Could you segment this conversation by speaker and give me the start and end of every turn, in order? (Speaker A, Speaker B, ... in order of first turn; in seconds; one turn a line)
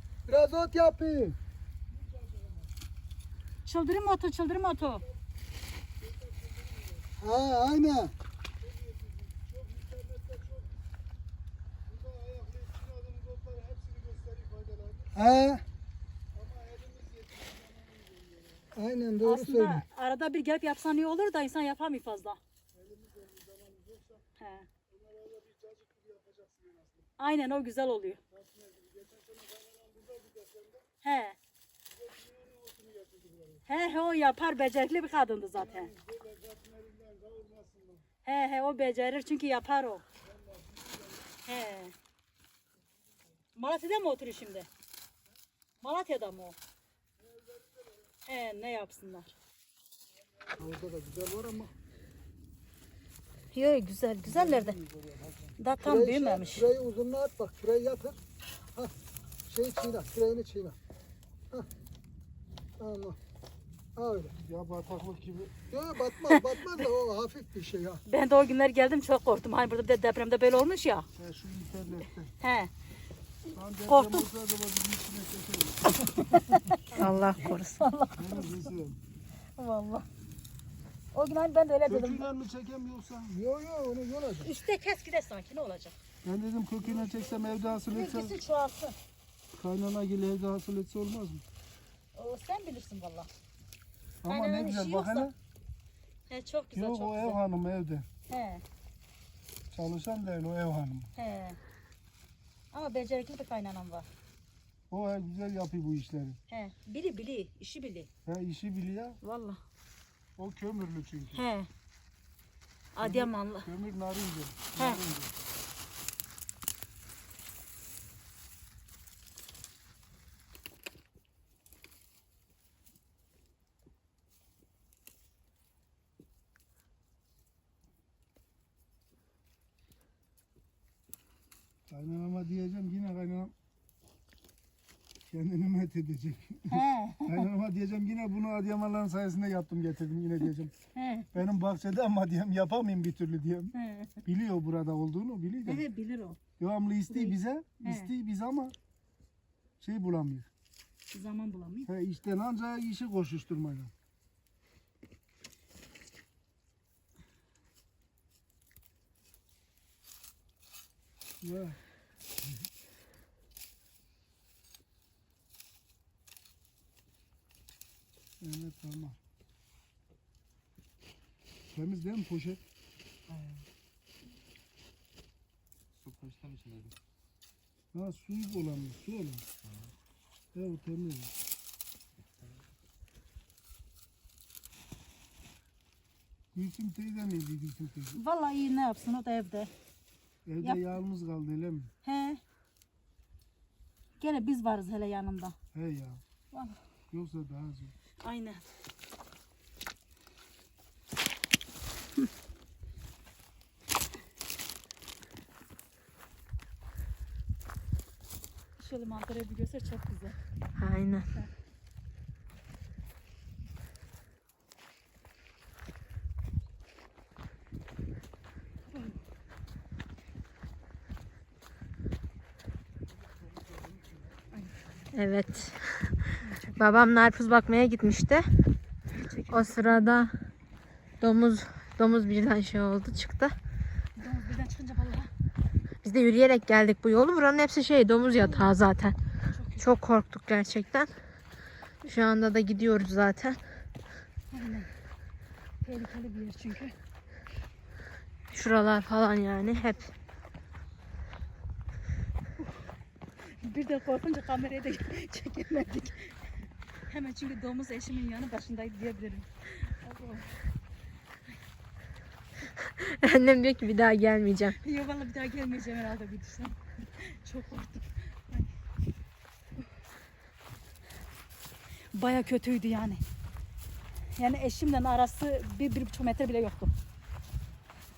Speaker A: 0.3-1.4
Speaker B: 1.9-2.7
Speaker C: 3.6-5.0
Speaker B: 6.0-7.1
Speaker A: 7.2-8.1
Speaker B: 8.6-10.8
Speaker B: 11.9-15.1
Speaker A: 15.1-15.6
Speaker B: 16.3-18.7
Speaker A: 18.7-19.8
Speaker C: 19.2-22.4
Speaker B: 22.7-24.2
Speaker C: 24.4-24.7
Speaker B: 24.9-27.1
Speaker C: 27.2-28.2
Speaker B: 28.3-30.9
Speaker C: 31.0-31.4
Speaker B: 31.9-33.6
Speaker C: 33.7-35.9
Speaker B: 35.6-38.0
Speaker C: 38.2-40.0
Speaker B: 40.2-41.4
Speaker C: 41.4-41.9
Speaker C: 43.5-44.7
Speaker C: 45.8-46.6
Speaker B: 47.2-48.1
Speaker C: 48.2-49.3
Speaker A: 50.6-51.7
Speaker C: 53.5-54.8
Speaker B: 54.2-55.5
Speaker C: 55.6-56.7
Speaker A: 55.8-58.2
Speaker A: 59.5-60.8
Speaker A: 62.8-63.2
Speaker A: 64.0-64.3
Speaker B: 64.4-65.7
Speaker A: 65.7-68.0
Speaker C: 68.1-71.1
Speaker B: 71.2-72.3
Speaker C: 72.4-72.7
Speaker B: 73.5-76.2
Speaker C: 73.9-74.2
Speaker C: 76.2-77.0
Speaker D: 76.9-77.8
Speaker C: 77.8-78.7
Speaker B: 78.2-79.0
Speaker C: 79.6-80.1
Speaker C: 81.1-82.2
Speaker B: 81.9-83.3
Speaker A: 83.3-84.5
Speaker C: 84.4-86.0
Speaker B: 86.2-88.3
Speaker C: 86.8-89.0
Speaker B: 89.5-91.4
Speaker C: 92.1-93.3
Speaker B: 94.2-95.3
Speaker C: 94.2-95.3
Speaker C: 96.3-97.4
Speaker B: 96.7-98.1
Speaker C: 98.3-98.6
Speaker B: 99.7-101.1
Speaker C: 101.2-101.6
Speaker C: 102.7-104.1
Speaker B: 104.9-106.4
Speaker C: 106.5-108.1
Speaker B: 108.2-109.2
Speaker C: 109.2-109.6
Speaker B: 110.4-111.4
Speaker C: 111.3-111.7
Speaker C: 112.9-113.7
Speaker B: 113.0-115.3
Speaker C: 114.8-115.0
Speaker B: 131.9-133.5
Speaker B: 135.3-140.7
Speaker C: 136.7-137.4
Speaker C: 140.9-141.3
Speaker B: 141.3-143.7
Speaker C: 143.7-144.2
Speaker B: 144.2-145.8
Speaker C: 145.6-146.4
Speaker B: 146.6-148.7
Speaker C: 147.1-148.1
Speaker B: 149.8-150.5
Speaker C: 151.1-151.9
Speaker B: 151.9-153.9
Speaker B: 161.4-161.8
Speaker B: 168.4-169.2
Speaker B: 171.7-172.6
Speaker E: 173.3-173.6
Speaker E: 176.0-176.9
Speaker B: 177.9-179.4
Speaker E: 179.6-179.9
Speaker B: 180.5-181.3
Speaker E: 182.4-182.6
Speaker B: 186.5-188.2
Speaker C: 188.1-189.7
Speaker B: 190.4-191.9
Speaker C: 190.6-191.0
Speaker C: 192.0-192.4
Speaker C: 194.2-195.6
Speaker B: 195.7-196.2
Speaker C: 196.5-196.8
Speaker B: 197.1-197.9
Speaker C: 198.2-198.6
Speaker C: 208.8-210.4
Speaker D: 210.8-211.3
Speaker C: 218.9-219.2
Speaker B: 223.6-224.2
Speaker D: 225.1-228.5
Speaker C: 226.4-226.9
Speaker C: 229.1-230.0
Speaker D: 229.5-230.3
Speaker D: 231.2-233.6
Speaker C: 234.2-235.3
Speaker D: 236.0-239.2
Speaker C: 238.4-238.7
Speaker C: 239.5-239.9
Speaker D: 239.8-241.1
Speaker D: 242.0-243.6
Speaker C: 244.5-244.9
Speaker C: 245.8-246.9
Speaker D: 248.5-250.1
Speaker C: 252.6-252.8
Speaker C: 253.4-256.5
Speaker C: 257.1-260.5
Speaker D: 262.8-264.8
Speaker C: 264.8-268.7
Speaker C: 272.1-273.2
Speaker C: 274.3-276.9